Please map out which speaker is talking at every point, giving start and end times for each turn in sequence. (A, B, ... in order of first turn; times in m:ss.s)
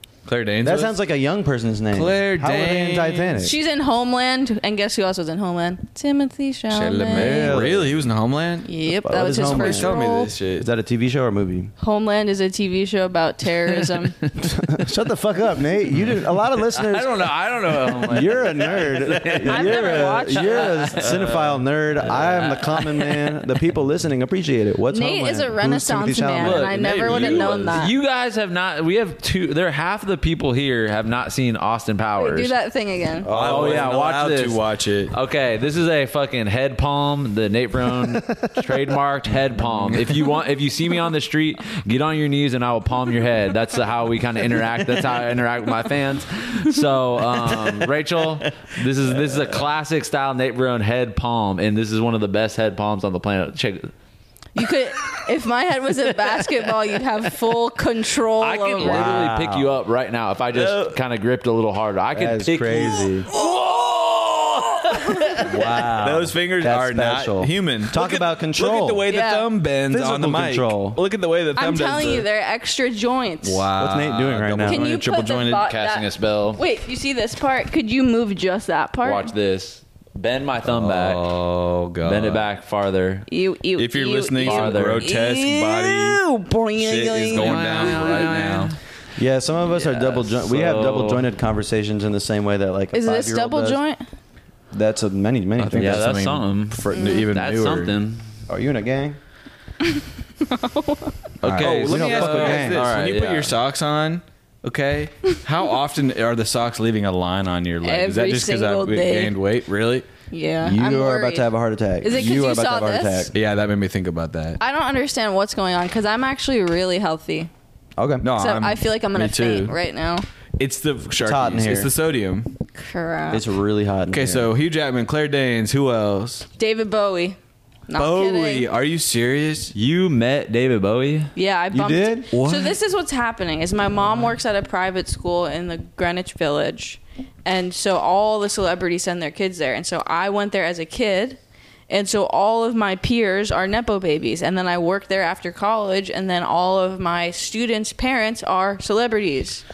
0:00.2-0:01.0 A
0:00.6-0:03.6 B
0:01.9-0:03.4 A
0:03.4-0:07.6 C
0:06.7-0:08.7 A
0:07.1-0:08.0 B
0:08.6-0:10.3 C
0:09.0-0:10.0 B
0:09.3-0:10.7 A
0:10.5-0:11.7 B
0:11.8-0:14.2 C
0:14.4-0:27.5 B
0:16.6-0:23.3 D
0:19.4-0:21.0 C
0:24.9-0:27.9 C
0:26.4-0:27.7 A
0:26.5-0:32.5 D
0:32.2-0:33.3 C
0:33.2-0:33.9 B
0:33.3-0:35.1 A
0:33.3-0:53.9 D
0:38.0-0:38.4 B
0:39.7-0:40.0 A
0:54.5-0:59.2 C
0:58.4-1:05.8 D
0:58.8-0:59.7 B
1:00.5-1:00.9 A
1:02.1-1:03.3 B
1:05.4-1:09.0 B
1:05.6-1:12.2 A
1:09.1-1:09.5 C
1:09.9-1:11.0 B
1:11.5-1:13.7 C
1:13.4-1:15.6 A
1:13.8-1:14.8 B
1:14.6-1:19.3 C
1:15.6-1:16.6 D
1:19.0-1:21.2 D
1:20.6-1:22.5 A
1:22.0-1:23.3 D
1:23.3-1:28.3 C
1:23.8-1:26.2 A
1:24.4-1:25.0 D
1:26.8-1:28.7 A
1:27.3-1:28.8 D
1:29.2-1:33.8 B
1:29.7-1:31.3 D
1:32.9-1:34.0 C
1:34.7-1:36.1 B
1:35.6-1:38.0 A
1:35.7-1:38.2 D
1:36.9-1:37.2 C
1:38.5-1:39.2 B
1:40.4-1:41.1 C
1:41.4-1:43.5 D
1:41.4-1:42.9 B
1:41.4-1:50.0 A
1:47.8-1:49.4 C
1:50.3-1:51.5 C
1:50.6-1:53.3 B
1:52.0-1:53.3 C
1:53.3-1:54.6 A
1:54.6-1:57.5 C
1:58.0-1:58.3 B
1:58.2-1:59.8 A
1:58.3-2:00.2 C
2:00.6-2:02.5 A
2:01.2-2:01.9 B
2:02.8-2:03.4 C
2:03.3-2:04.5 B
2:04.1-2:06.5 A
2:06.6-2:07.4 C
2:07.9-2:08.7 C
2:07.9-2:09.7 A
2:09.7-2:11.3 D
2:11.4-2:29.6 C
2:11.7-2:12.3 B
2:12.3-2:12.8 A